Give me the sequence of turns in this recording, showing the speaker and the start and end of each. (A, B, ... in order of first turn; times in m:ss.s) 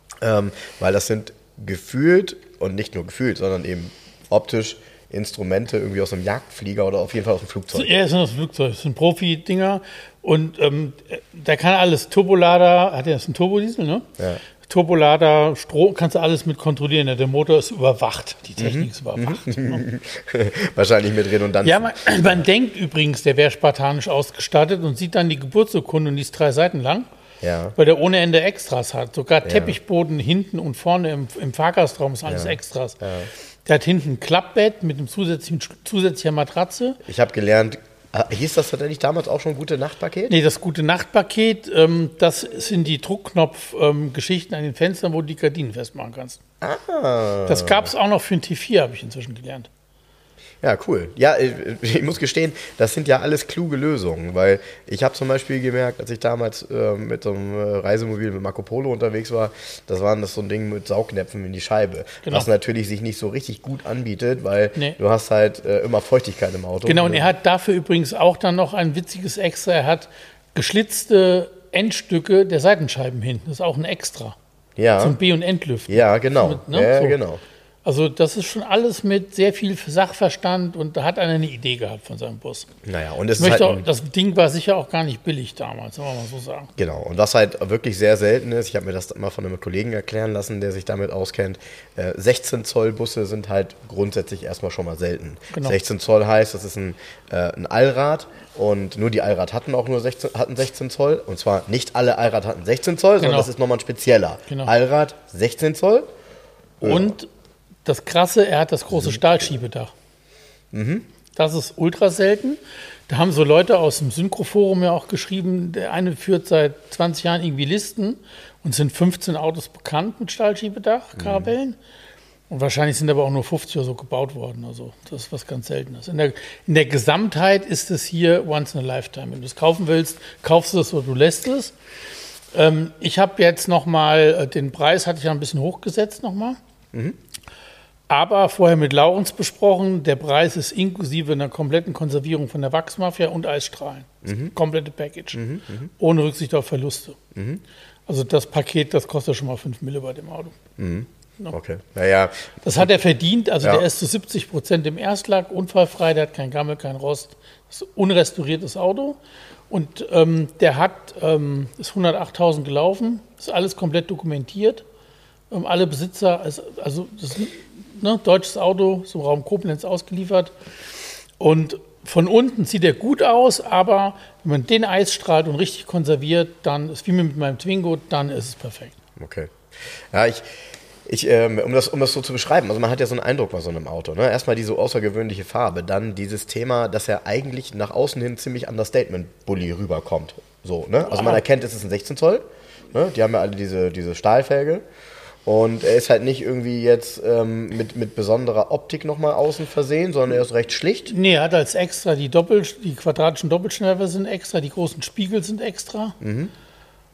0:00.2-0:07.9 A
0:07.7-0:14.1 B
0:14.6-0:19.8 B
0:18.6-0:22.4 A
0:21.6-0:27.1 B
0:27.4-0:27.8 A
0:27.8-0:33.0 B
0:29.4-0:29.8 A
0:32.2-0:33.3 A
0:33.6-0:37.0 B
0:37.0-0:40.4 A
0:40.3-0:46.4 B
0:46.6-0:47.9 A
0:47.5-0:49.7 B
0:50.6-1:07.3 A
1:06.9-1:14.4 B
1:14.8-1:15.2 A
1:15.0-1:17.2 B
1:15.9-1:17.4 A
1:17.8-1:22.7 B
1:22.8-1:23.8 A
1:23.4-1:26.7 B
1:26.8-1:46.1 A
1:35.5-1:35.8 B
1:43.2-1:43.5 B
1:46.8-1:47.1 A
1:46.8-1:47.3 B
1:47.8-1:49.9 B
1:48.9-1:49.2 A
1:50.7-1:51.1 A
1:51.4-1:52.6 B
1:53.1-2:01.8 B
2:01.2-2:01.5 A
2:02.5-2:11.8 B
2:12.5-2:16.6 B
2:18.1-2:25.4 B
2:24.2-2:24.5 A
2:25.3-2:25.9 A
2:26.0-2:27.2 B
2:27.3-2:27.6 A
2:28.1-2:30.6 B
2:30.8-2:33.0 A
2:32.6-2:39.2 B
2:33.6-2:33.9 A
2:39.7-2:44.8 B
2:45.5-2:50.5 B
2:51.4-2:59.0 B
2:59.2-2:59.5 A
3:00.1-3:00.4 A
3:01.1-3:14.8 A
3:15.5-3:21.1 A
3:21.1-3:26.2 B
3:26.2-3:26.5 A